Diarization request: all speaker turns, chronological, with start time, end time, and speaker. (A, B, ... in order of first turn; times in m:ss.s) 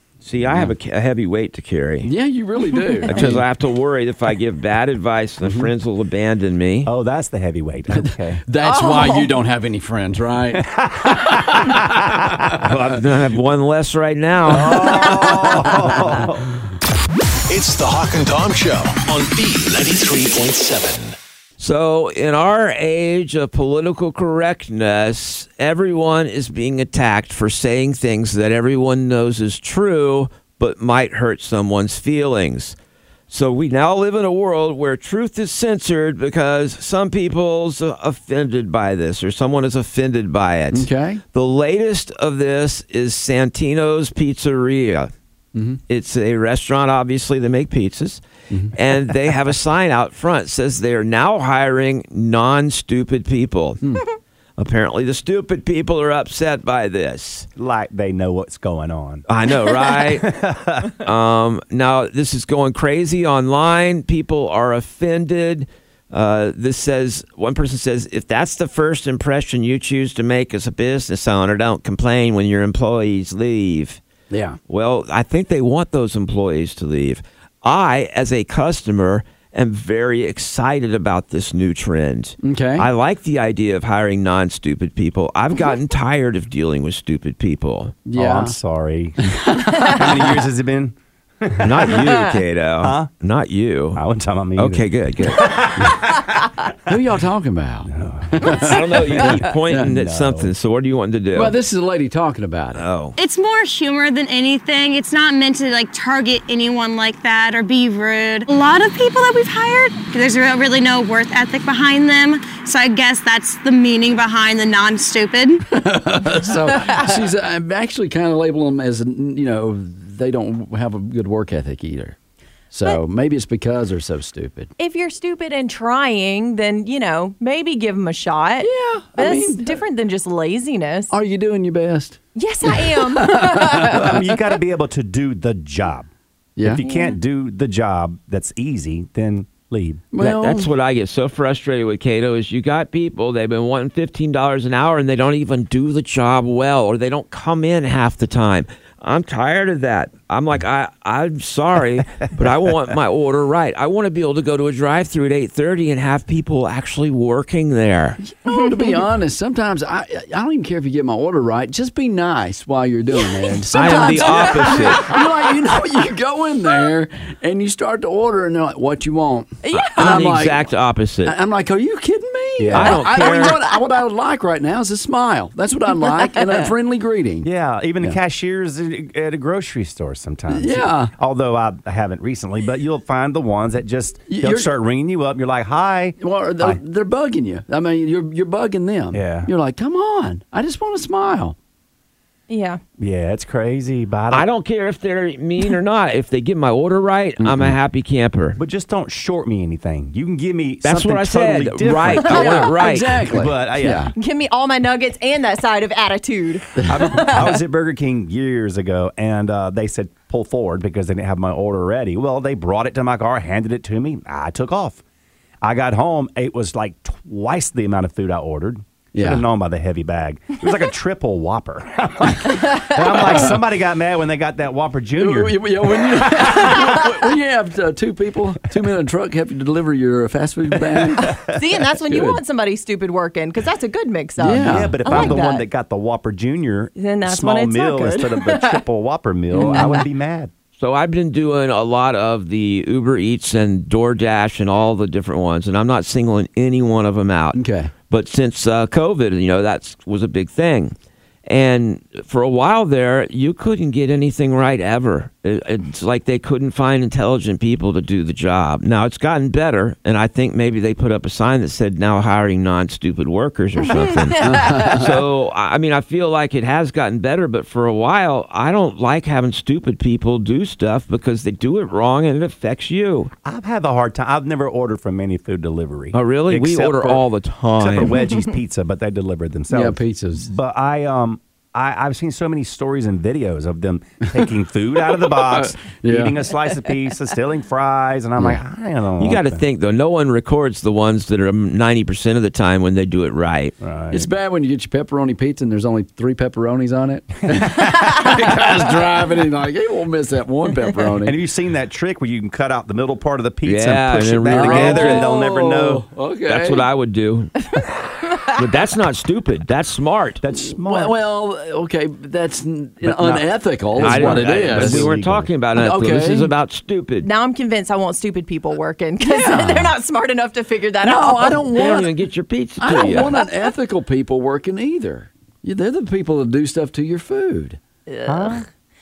0:00.2-0:02.1 A
0:02.0-0:03.4 B
0:03.1-0:06.9 A
0:06.8-0:08.4 C
0:07.9-0:12.6 B
0:08.6-0:09.3 D
0:10.5-0:12.5 C
0:12.6-0:15.7 A
0:14.5-0:16.4 C
0:17.5-0:21.2 E
0:21.6-0:32.8 A
0:33.3-0:45.1 A
0:40.7-0:41.2 B
0:45.6-0:45.8 B
0:45.9-0:48.2 A
0:48.7-0:53.9 A
0:54.6-0:57.5 A
0:57.6-0:59.2 C
0:59.3-1:00.3 A
1:00.1-1:01.0 C
1:01.0-1:14.0 A
1:14.3-1:14.6 B
1:14.7-1:28.0 A
1:22.4-1:22.9 B
1:28.1-1:28.5 B
1:28.1-1:32.2 C
1:31.6-1:34.0 A
1:32.8-1:33.1 C
1:33.9-1:36.6 C
1:34.6-1:35.7 A
1:36.9-1:39.9 B
1:37.9-1:40.5 C
1:38.6-1:41.6 A
1:41.4-1:42.8 B
1:42.8-1:43.2 A
1:43.2-1:55.6 F
1:55.7-2:02.2 B
2:02.7-2:04.7 B
2:04.8-2:11.1 D
2:08.6-2:09.8 B
2:11.1-2:14.1 B
2:12.4-2:14.2 D
2:13.8-2:16.1 C
2:16.6-2:16.8 B
2:16.6-2:20.0 C
2:16.9-2:17.2 D
2:20.1-2:20.7 B
2:20.2-2:38.2 A
2:38.2-2:50.7 B
2:38.5-2:39.0 D
2:43.7-2:45.1 A
2:43.7-2:45.2 D
2:49.6-2:50.2 D
2:49.8-2:51.4 A
2:51.2-2:57.5 B
2:52.6-2:53.0 C
2:52.7-2:53.6 A
2:57.4-3:06.8 C
3:00.5-3:01.1 B
3:04.3-3:04.7 B
3:06.2-3:11.6 B
3:09.1-3:09.5 C
3:12.5-3:12.8 D
3:13.0-3:14.5 C
3:14.3-3:18.6 A
3:17.4-3:17.7 B
3:18.6-3:22.7 C
3:20.8-3:23.2 A
3:22.3-3:24.1 B
3:23.2-3:24.1 C
3:24.2-3:27.5 D
3:26.8-3:27.3 B
3:26.8-3:35.0 C
3:35.6-3:47.0 C
3:39.2-3:39.4 B
3:45.2-3:51.4 B
3:50.9-3:51.6 C
3:51.3-3:55.6 D
3:52.1-3:52.4 B
3:54.4-3:55.4 B
3:54.5-4:00.5 C
3:57.0-3:58.8 D
3:59.5-4:00.0 B
3:59.6-4:00.0 D
4:00.8-4:10.9 A
4:07.6-4:07.9 B
4:11.5-4:33.3 A
4:23.9-4:24.7 D
4:24.4-4:25.1 B
4:33.4-4:49.6 C
4:36.1-4:38.2 A
4:39.7-4:40.5 B
4:45.3-4:46.4 B
4:49.2-4:53.8 A
4:53.8-4:54.3 C
4:54.1-5:01.4 B
4:57.6-4:58.2 C
5:01.2-5:06.1 C
5:03.6-5:05.3 A
5:04.5-5:06.9 B
5:06.5-5:07.8 A
5:08.4-5:10.4 A
5:10.4-5:11.2 C
5:10.8-5:15.1 B
5:13.0-5:15.5 C
5:14.0-5:17.3 A
5:15.8-5:16.5 B
5:17.2-5:22.0 D
5:19.2-5:19.9 B
5:21.0-5:22.1 B
5:21.7-5:23.4 A
5:22.8-5:27.8 B
5:28.1-5:28.6 D
5:28.2-5:28.7 C